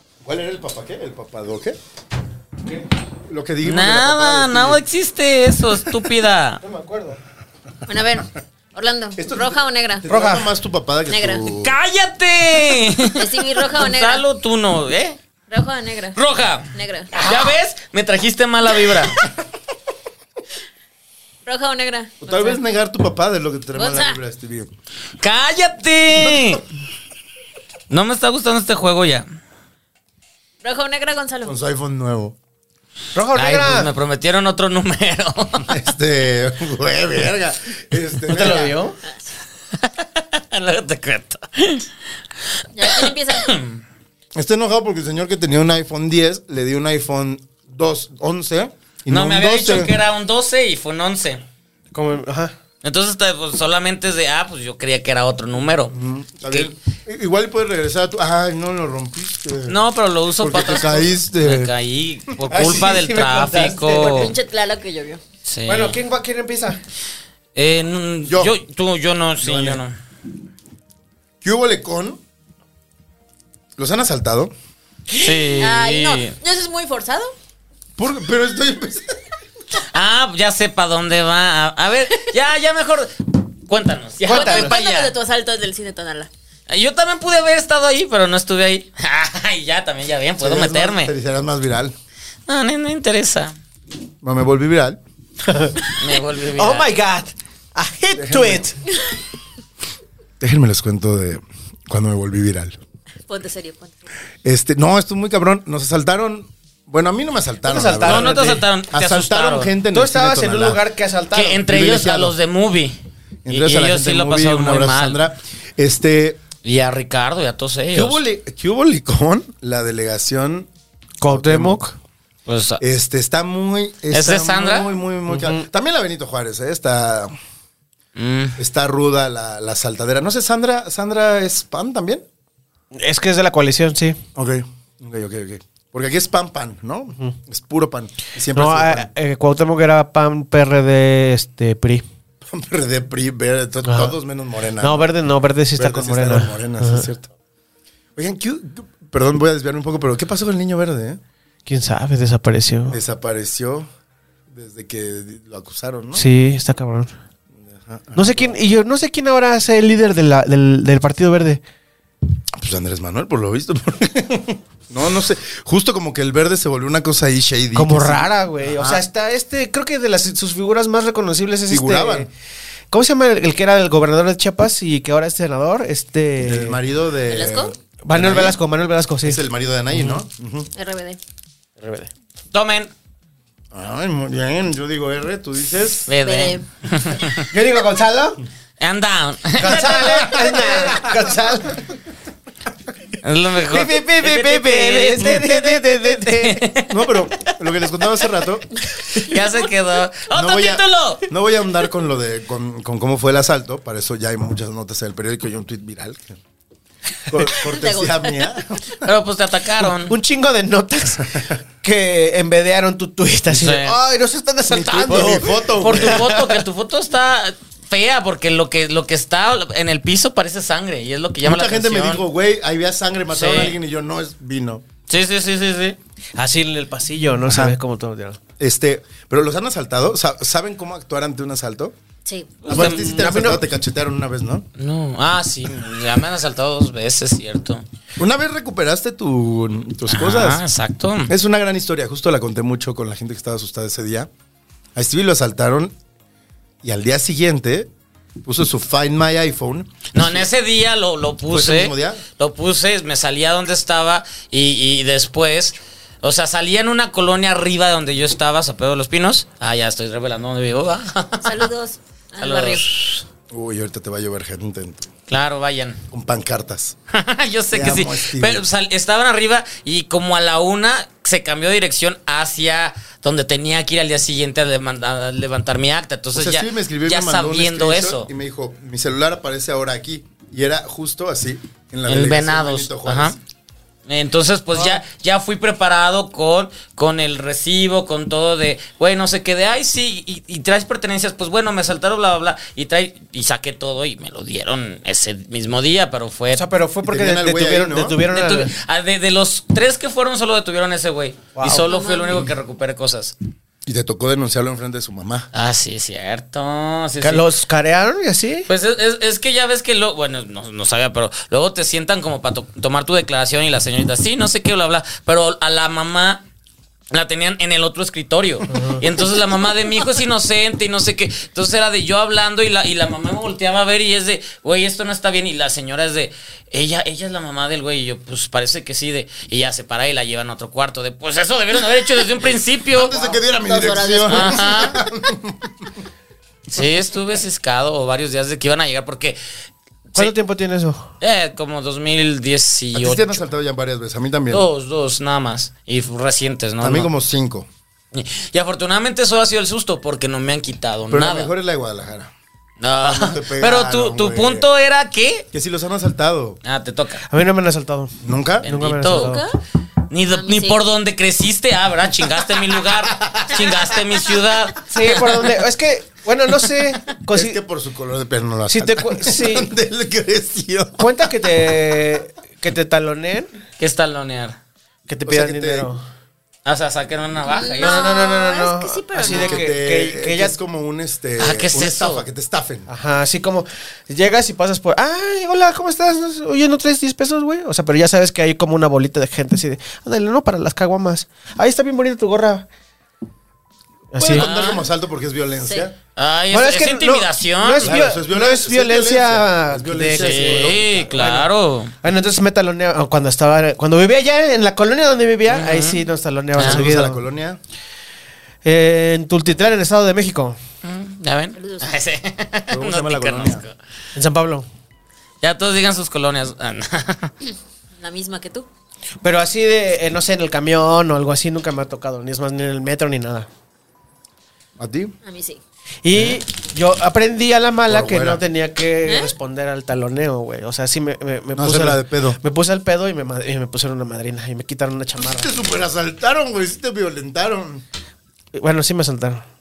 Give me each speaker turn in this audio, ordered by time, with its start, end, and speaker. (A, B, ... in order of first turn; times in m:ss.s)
0:00.2-0:01.8 A
0:03.3-0:04.8 A
0:03.6-0:06.6 B
0:06.6-0:07.2 C
0:07.9-0:10.1 D
0:09.2-0:11.8 A
0:10.1-0:10.5 C
0:11.1-0:11.5 D
0:11.6-0:15.2 B
0:13.2-0:14.2 D
0:15.5-0:16.2 D
0:16.2-0:19.2 B
0:16.7-0:17.1 D
0:21.4-0:22.6 D
0:22.2-0:24.7 A
0:23.8-0:24.2 D
0:25.2-0:26.6 B
0:26.2-0:26.6 A
0:27.9-0:29.3 B
0:30.6-0:31.6 D
0:31.4-0:32.4 A
0:33.2-0:33.9 C
0:33.4-0:35.8 B
0:35.7-0:38.8 A
0:38.3-0:39.0 C
0:39.1-0:39.3 D
0:39.8-0:41.9 B
0:42.7-0:43.5 D
0:42.8-0:43.8 B
0:44.4-0:50.0 A
0:49.1-0:51.4 B
0:51.9-0:52.5 C
0:52.8-0:55.9 B
0:55.9-0:59.8 A
0:59.7-1:04.4 B
1:00.4-1:01.7 A
1:02.5-1:04.3 C
1:03.8-1:05.2 D
1:05.5-1:06.0 B
1:05.7-1:06.8 C
1:07.6-1:10.0 B
1:08.3-1:08.6 A
1:09.4-1:09.8 A
1:11.4-1:12.2 A
1:13.8-1:14.5 A
1:15.1-1:16.4 B
1:15.6-1:17.3 D
1:18.0-1:19.2 A
1:19.9-1:25.1 B
1:24.2-1:24.8 C
1:24.3-1:26.3 D
1:26.7-1:31.1 B
1:30.4-1:32.0 A
1:32.5-1:33.6 B
1:34.2-1:35.0 A
1:35.5-1:36.0 C
1:36.0-1:36.9 B
1:36.6-1:38.8 C
1:38.1-1:38.6 A
1:40.4-1:42.8 A
1:43.3-1:44.0 D
1:44.4-1:50.8 A
1:47.6-1:48.6 C
1:48.0-1:49.7 B
1:49.9-1:51.6 C
1:51.3-1:53.0 B
1:51.6-1:52.4 A
1:53.4-1:56.4 A
1:53.5-1:55.2 B
1:56.6-1:58.2 B
1:57.9-2:00.7 A
2:01.2-2:02.0 C
2:01.3-2:01.8 A
2:02.5-2:02.8 B
2:02.8-2:07.3 A
2:04.1-2:04.9 B
2:05.3-2:05.7 C
2:08.2-2:08.6 B
2:08.6-2:12.2 A
2:12.9-2:14.2 C
2:14.4-2:19.1 A
2:18.5-2:22.0 C
2:22.4-2:25.1 A
2:23.8-2:24.1 C
2:24.8-2:27.1 C
2:25.8-2:27.3 A
2:28.2-2:31.2 A
2:31.7-2:33.0 C
2:32.9-2:33.9 A
2:34.5-2:36.3 A
2:36.1-2:37.1 C
2:37.6-2:38.6 A
2:38.2-2:41.6 C
2:42.5-2:49.0 A
2:47.7-2:52.3 C
2:51.7-2:52.3 A
2:52.9-2:56.8 C
2:56.4-2:58.6 A
2:57.3-2:57.7 D
2:58.0-2:59.4 C
2:59.2-3:00.7 A
2:59.9-3:00.2 C
3:00.8-3:01.2 D
3:01.8-3:02.1 C
3:02.5-3:02.9 B
3:03.7-3:06.1 A
3:06.1-3:07.5 B
3:06.2-3:06.6 D
3:07.5-3:08.4 C
3:08.8-3:10.4 B
3:09.6-3:11.8 C
3:09.6-3:11.4 A
3:13.2-3:17.3 B
3:13.7-3:16.7 C
3:16.9-3:18.7 A
3:19.0-3:21.3 B
3:20.3-3:26.4 A
3:27.3-3:29.1 A
3:27.6-3:28.5 D
3:29.0-3:30.2 B
3:30.0-3:36.6 C
3:33.5-3:34.0 B
3:34.7-3:36.3 A
3:35.1-3:42.2 B
3:41.4-3:44.9 A
3:43.3-3:43.8 B
3:45.1-3:46.0 B
3:46.4-3:48.4 C
3:47.5-3:47.8 A
3:48.6-3:52.0 A
3:52.3-3:52.6 D
3:52.6-3:53.1 B
3:52.7-3:54.7 A
3:52.7-3:53.6 C
3:54.8-3:57.8 B
3:58.2-4:00.6 A
4:00.1-4:01.3 B
4:01.3-4:04.3 A
4:05.0-4:06.0 A
4:06.8-4:07.9 A
4:08.4-4:10.4 A
4:10.1-4:21.7 B
4:11.5-4:12.2 A
4:21.4-4:22.9 D
4:22.4-4:23.2 B
4:23.5-4:25.1 A
4:25.3-4:26.0 B
4:26.1-4:27.0 A
4:27.1-4:38.3 B
4:27.7-4:28.6 A
4:36.3-4:43.4 A
4:42.1-4:43.4 B
4:44.1-4:56.6 B
4:56.5-4:58.7 C
4:57.0-4:58.2 A
4:58.3-5:03.4 B
5:01.6-5:01.9 C
5:01.7-5:02.5 D
5:03.9-5:05.5 A
5:05.5-5:07.5 B
5:07.2-5:08.7 C
5:08.7-5:16.4 B
5:17.1-5:33.2 B
5:18.7-5:19.0 C
5:32.4-5:35.9 A
5:33.2-5:34.9 D
5:34.3-5:35.0 B
5:36.7-5:39.4 B
5:40.2-5:41.1 C
5:41.2-5:43.4 B
5:42.9-5:44.7 A
5:44.5-5:47.1 B
5:46.8-5:47.7 A
5:48.1-5:51.5 B
5:51.1-5:52.3 A
5:52.8-5:55.5 B
5:52.9-5:54.7 A
5:55.5-5:56.6 A
5:56.6-5:57.3 B
5:57.3-5:59.4 C
5:58.2-5:58.7 A
5:58.6-5:59.4 B
5:59.1-5:59.6 D
6:00.1-6:05.5 B
6:00.3-6:00.8 D
6:03.0-6:03.9 A
6:04.9-6:07.6 C
6:07.3-6:11.3 A
6:08.7-6:09.7 C
6:11.0-6:13.5 C
6:13.8-6:14.6 B
6:15.1-6:16.0 C
6:15.3-6:15.9 A
6:16.6-6:18.1 B
6:17.4-6:19.7 D
6:17.8-6:20.6 C
6:19.2-6:22.9 A
6:21.4-6:22.2 B
6:22.9-6:32.7 C
6:34.1-6:34.5 C
6:34.2-6:36.0 A
6:34.3-6:34.8 B
6:35.6-6:35.9 D
6:36.2-6:38.0 B
6:36.5-6:41.5 C
6:37.8-6:41.3 A
6:40.1-6:41.9 B
6:42.0-6:47.2 C
6:45.5-6:46.0 B
6:46.6-6:46.8 B
6:46.6-6:47.6 A
6:48.6-6:50.6 C
6:50.8-6:53.8 B
6:51.6-6:51.9 D
6:52.7-6:53.6 A
6:54.2-6:54.7 C
6:55.4-6:57.3 B
6:58.0-6:58.7 D
6:59.2-7:03.5 C
7:04.8-7:05.2 A
7:05.2-7:05.6 D
7:06.0-7:15.5 C
7:07.9-7:08.4 A
7:09.1-7:09.3 D
7:11.6-7:12.4 A
7:15.2-7:17.8 A
7:18.5-7:19.4 C